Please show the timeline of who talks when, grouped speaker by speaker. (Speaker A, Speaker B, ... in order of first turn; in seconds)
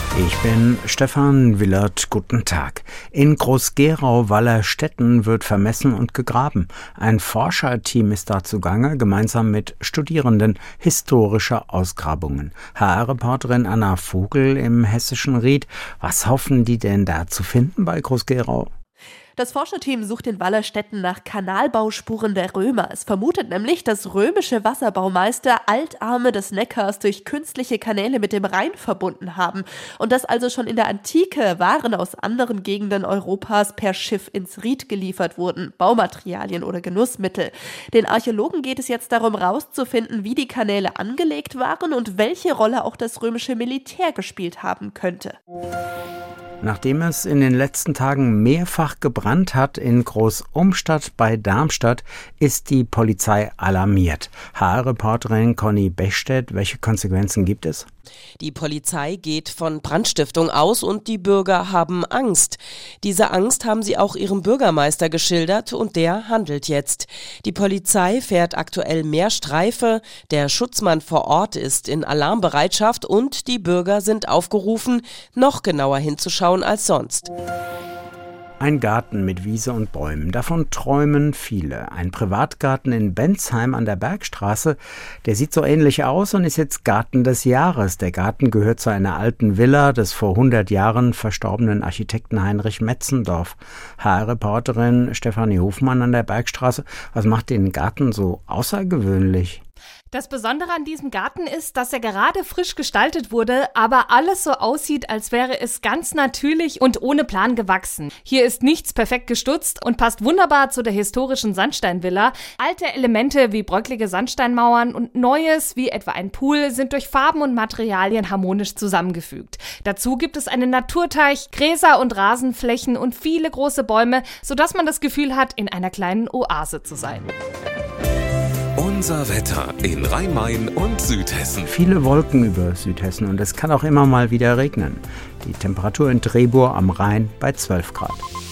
Speaker A: 0.1-18.7, 46.6-57.9, 78.6-99.6, 131.7-138.2
Speaker B: 19.4-45.4
Speaker C: 58.4-77.3
Speaker D: 100.1-127.3
Speaker E: 128.8-131.7